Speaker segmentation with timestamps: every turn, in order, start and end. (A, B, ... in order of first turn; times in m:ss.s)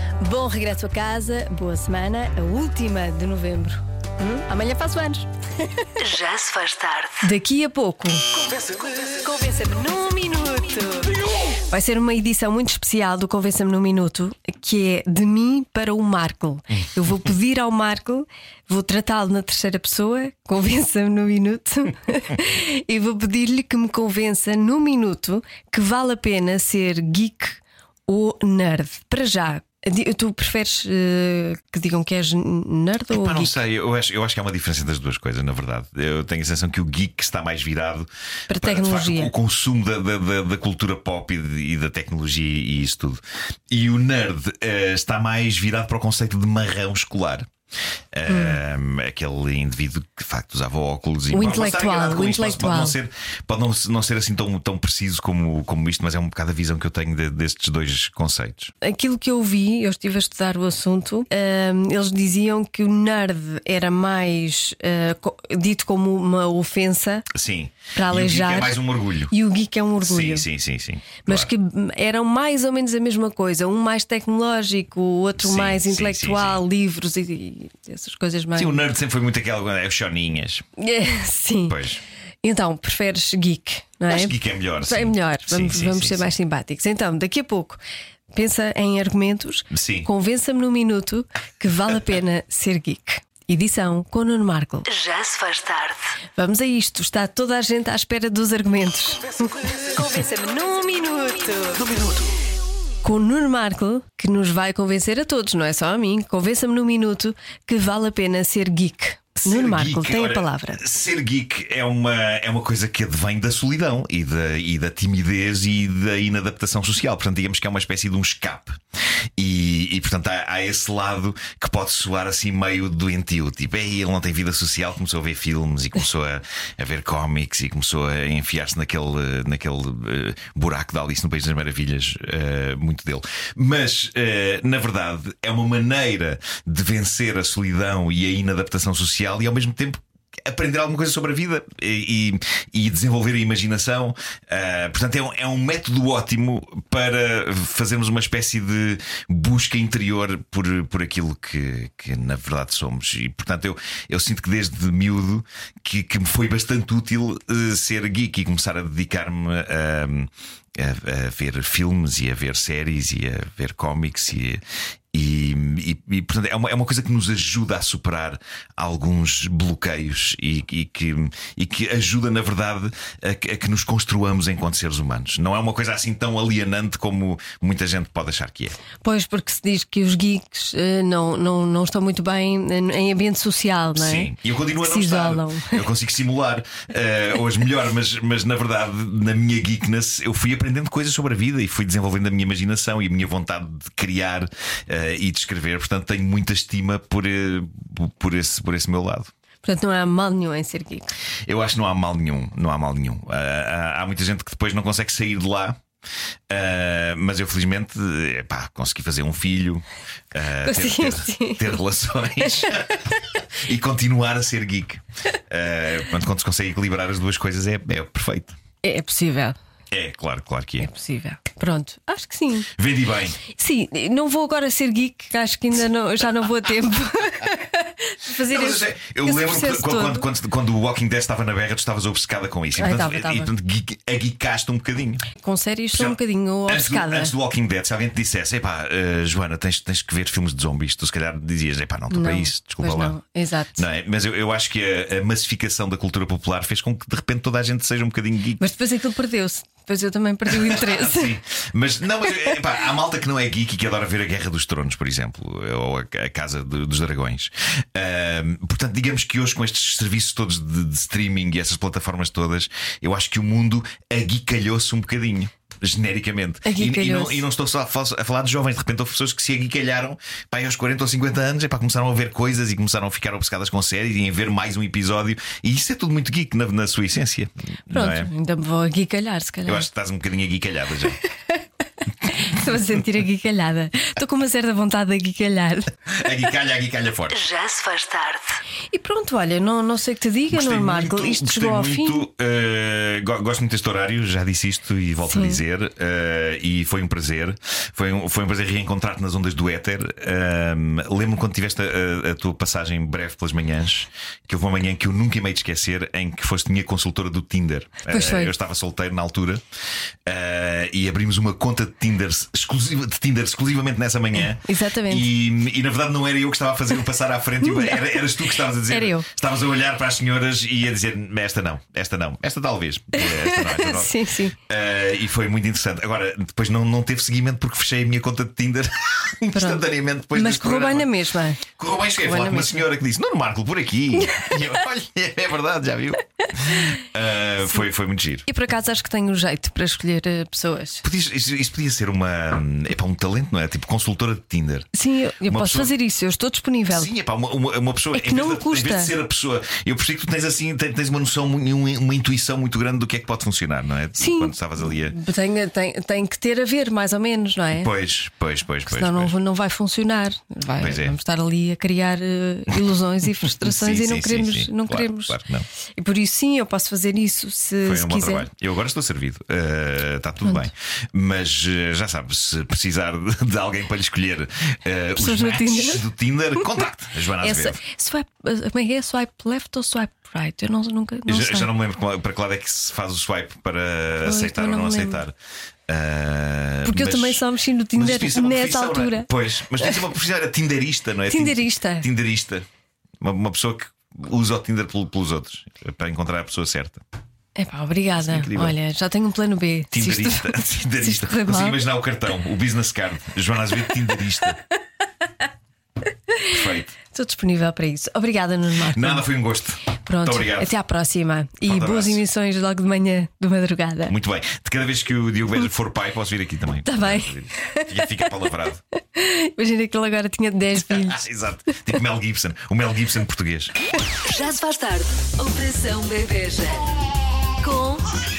0:00.2-0:05.3 A
0:06.0-0:07.3 B
0:07.2-0:08.4 A
0:09.1-0:11.1 A
0:11.7-0:33.6 A
0:33.1-0:47.5 C
0:38.5-0:39.3 A
0:48.1-0:58.7 C
0:48.3-0:48.6 A
0:51.3-0:53.0 A
0:58.8-1:07.3 A
1:07.3-1:09.3 C
1:08.0-1:10.5 A
1:10.0-1:11.5 C
1:11.3-1:18.8 A
1:15.4-1:16.6 C
1:18.6-1:20.7 C
1:20.8-1:21.8 A
1:21.7-1:22.0 C
1:22.4-1:27.8 A
1:24.1-1:26.3 C
1:28.3-1:34.9 A
1:29.7-1:30.1 C
1:34.9-1:36.2 B
1:36.4-1:42.2 A
1:43.0-1:50.8 A
1:49.4-1:58.8 C
1:59.4-2:44.6 C
2:45.1-2:58.8 C
2:59.0-3:05.8 A
3:04.0-3:19.3 C
3:19.6-3:21.1 A
3:21.5-3:25.8 C
3:26.5-3:38.6 C
3:30.6-3:31.8 A
3:38.8-3:39.6 A
3:39.9-3:40.9 C
3:40.8-3:42.7 A
3:42.8-3:43.4 C
3:43.4-3:50.3 A
3:48.4-3:55.3 C
3:52.8-3:53.5 A
3:55.4-3:57.3 A
3:55.9-4:03.2 C
4:02.1-4:03.8 A
4:03.8-4:08.6 C
4:08.6-4:11.4 A
4:10.5-4:38.3 C
4:26.6-4:27.4 A
4:37.9-4:39.9 A
4:39.6-4:41.2 C
4:42.3-4:45.9 A
4:46.1-4:47.4 C
4:47.3-4:48.5 B
4:48.9-4:52.2 A
4:50.5-5:09.6 C
4:55.2-4:55.6 A
5:08.1-5:08.5 A
5:10.3-5:31.1 C
5:14.6-5:15.3 A
5:17.6-5:19.3 A
5:23.2-5:24.6 A
5:29.5-5:31.6 A
5:31.7-5:38.5 C
5:32.2-5:32.9 A
5:38.5-5:41.0 A
5:41.0-5:44.9 C
5:44.9-5:47.1 A
5:45.5-5:45.9 C
5:46.9-5:55.2 C
5:48.1-5:49.1 A
5:54.2-5:57.9 A
5:57.8-5:59.4 C
5:58.9-6:05.4 A
6:00.8-6:01.2 C
6:03.6-6:05.7 C
6:06.0-6:08.5 A
6:07.8-6:17.8 C
6:15.2-6:16.1 A
6:17.4-6:21.7 A
6:21.3-6:25.4 C
6:24.2-6:25.2 A
6:25.9-6:27.4 C
6:26.8-6:29.3 A
6:28.0-6:32.7 C
6:31.3-6:32.1 A
6:33.2-6:37.0 C
6:37.6-6:41.8 A
6:38.2-6:38.8 C
6:39.9-6:44.6 C
6:46.5-6:47.0 C
6:47.1-6:49.3 A
6:48.9-6:50.7 C
6:50.1-6:54.2 A
6:51.7-6:52.2 C
6:54.1-6:58.8 C
6:56.9-6:58.3 A
6:59.2-7:01.2 A
7:00.8-7:03.7 C
7:04.2-7:06.9 B
7:07.6-7:08.2 B